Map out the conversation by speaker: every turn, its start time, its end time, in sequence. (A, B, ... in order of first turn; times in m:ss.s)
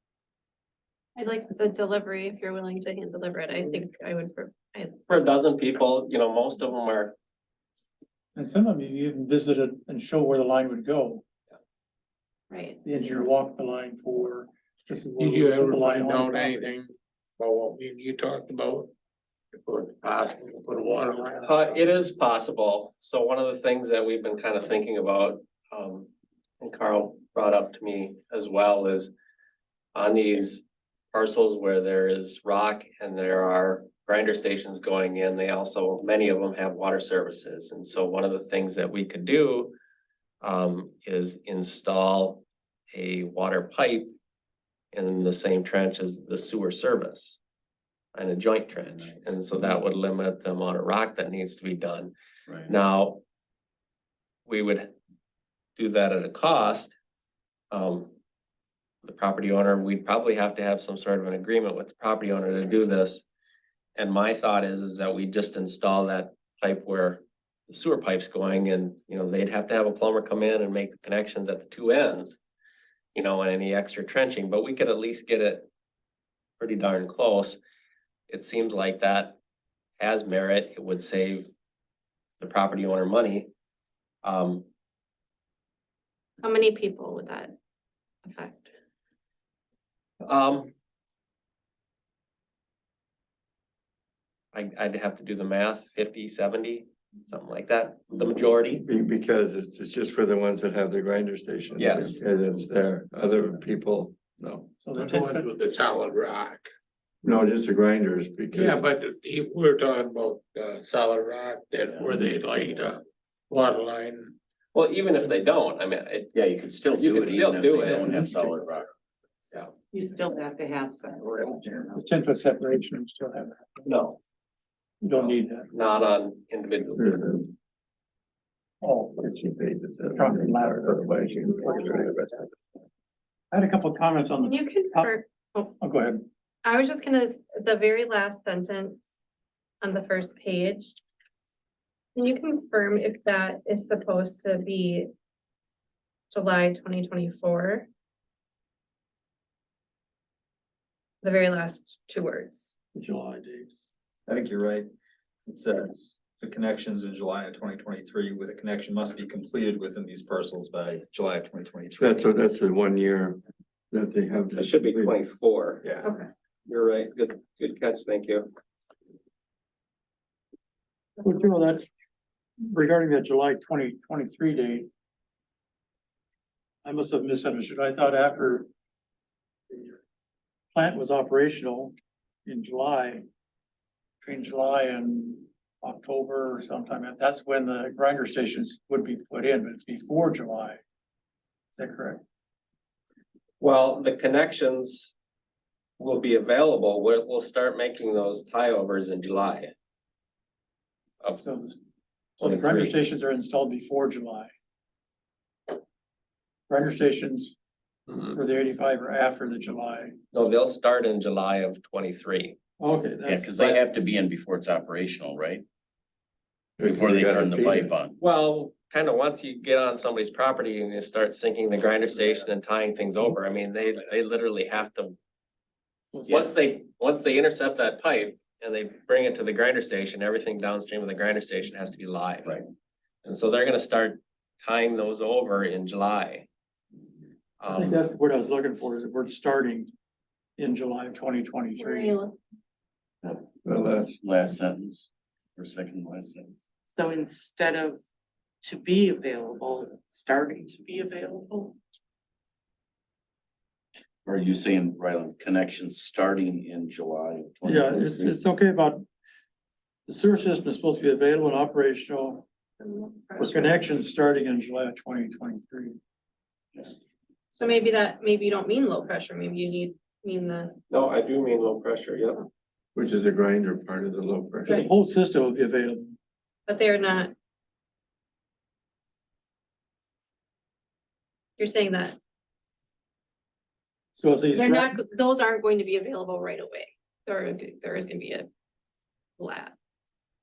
0:01.2-0:05.0 A
0:05.1-0:07.2 B
0:08.3-0:11.2 C
0:12.5-0:12.8 A
0:12.8-0:16.7 C
0:15.2-0:18.9 D
0:19.6-0:21.8 D
0:21.4-0:26.1 B
0:26.6-0:29.1 B
0:29.9-0:39.7 B
0:40.4-0:44.1 B
0:44.9-0:47.4 B
0:48.1-0:52.1 B
0:52.6-0:53.2 B
0:54.4-0:54.9 B
0:55.8-0:56.9 B
0:57.7-0:58.1 B
0:59.0-1:03.2 B
1:04.0-1:12.4 B
1:13.1-1:15.7 B
1:16.6-1:17.6 B
1:18.3-1:19.4 B
1:20.0-1:21.5 B
1:22.4-1:23.5 B
1:24.2-1:24.6 B
1:26.4-1:27.5 A
1:28.2-1:28.7 A
1:30.2-1:30.7 B
1:34.5-1:38.8 B
1:38.8-1:44.7 E
1:41.8-1:42.2 B
1:44.8-1:45.5 C
1:45.0-1:46.7 D
1:47.2-1:48.8 E
1:48.5-1:54.4 D
1:51.9-1:52.2 F
1:54.7-1:56.3 B
1:56.3-1:58.9 F
1:56.9-1:58.4 B
1:59.9-2:02.0 G
2:01.9-2:03.8 C
2:03.8-2:04.2 B
2:05.0-2:05.7 C
2:05.2-2:07.3 B
2:07.0-2:07.5 E
2:08.8-2:09.3 C
2:09.1-2:12.5 E
2:10.1-2:11.2 C
2:13.5-2:15.2 C
2:14.4-2:15.7 A
2:15.8-2:16.3 C
2:16.6-2:19.0 A
2:19.8-2:21.0 A
2:22.1-2:25.1 A
2:26.3-2:27.9 A
2:31.2-2:32.6 A
2:32.9-2:33.8 C
2:34.3-2:34.8 H
2:35.4-2:42.2 H
2:42.0-2:43.4 E
2:43.9-2:45.2 E
2:44.6-2:45.8 B
2:46.7-2:48.5 B
2:51.2-2:51.9 C
2:52.6-2:54.9 C
2:56.8-2:58.7 C
2:59.7-3:00.0 C
3:00.7-3:03.2 C
3:04.2-3:10.8 C
3:11.7-3:12.2 C
3:13.6-3:15.1 B
3:16.0-3:19.7 B
3:21.4-3:21.8 C
3:22.4-3:24.5 C
3:22.4-3:22.9 B
3:26.7-3:27.6 C
3:28.1-3:28.3 B
3:28.1-3:30.2 C
3:30.3-3:32.6 B
3:32.8-3:33.8 C
3:33.2-3:35.6 F
3:36.8-3:37.9 E
3:36.8-3:38.2 F
3:38.2-3:45.1 B
3:46.2-3:46.7 F
3:46.3-3:52.6 B
3:53.2-3:56.5 B
3:57.6-3:58.0 B
3:57.7-3:59.9 C
4:00.6-4:02.2 C
4:01.8-4:02.4 A
4:03.3-4:04.2 E
4:04.2-4:06.6 F
4:06.9-4:08.0 G
4:08.6-4:11.8 G
4:14.2-4:18.4 F
4:17.6-4:19.0 C
4:20.1-4:22.4 C
4:22.8-4:23.8 A
4:23.4-4:26.0 C
4:27.5-4:30.8 A
4:30.9-4:32.4 B
4:32.9-4:34.8 E
4:34.6-4:34.9 A
4:34.7-4:36.2 C
4:36.7-4:37.3 A
4:41.6-4:42.2 A
4:44.1-4:45.0 C
4:44.5-4:48.5 A
4:49.4-4:49.7 A